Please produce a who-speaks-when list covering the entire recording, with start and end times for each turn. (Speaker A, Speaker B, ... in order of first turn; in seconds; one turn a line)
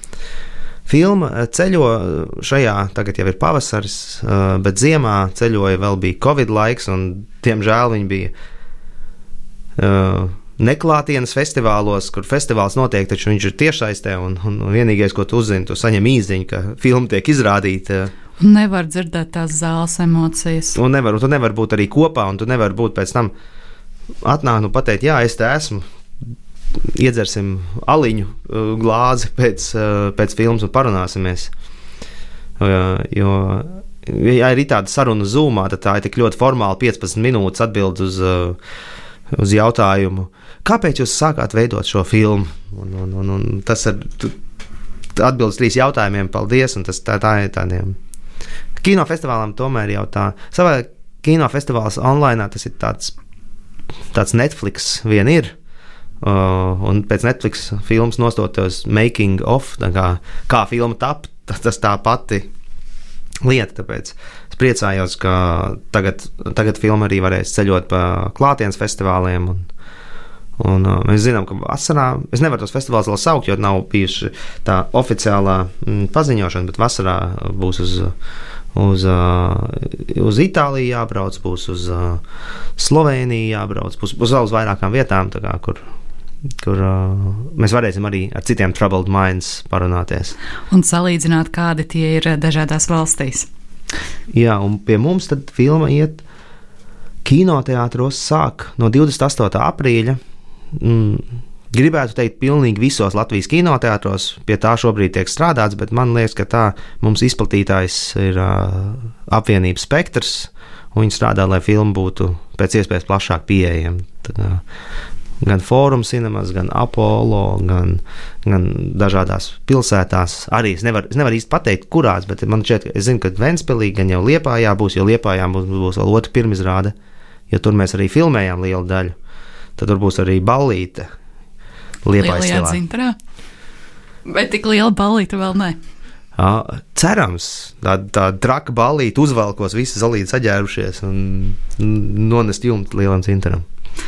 Speaker A: 0.9-8.3
Speaker A: 9.8-18.1
Speaker B: 18.4-20.8
Speaker A: 20.8-23.3
Speaker A: 24.2-25.9
Speaker A: 26.8-31.5
Speaker A: 32.6-38.6
Speaker A: 39.3-44.4
Speaker A: 45.1-48.0
Speaker A: 48.8-53.1
Speaker A: 54.1-55.5
Speaker A: 56.2-62.5
Speaker A: 63.4-69.7
Speaker A: 70.6-78.1
Speaker A: 78.7-82.2
Speaker A: 82.8-85.8
Speaker A: 86.6-90.4
Speaker B: 90.7-93.5
Speaker A: 94.3-96.2
Speaker A: 97.2-100.2
Speaker A: 100.7-114.6
Speaker A: 115.4-126.9
Speaker A: 127.5-129.2
Speaker A: 129.8-131.1
Speaker A: 132.0-132.8
Speaker B: 132.2-133.2
Speaker B: 134.3-135.8
Speaker A: 136.4-143.7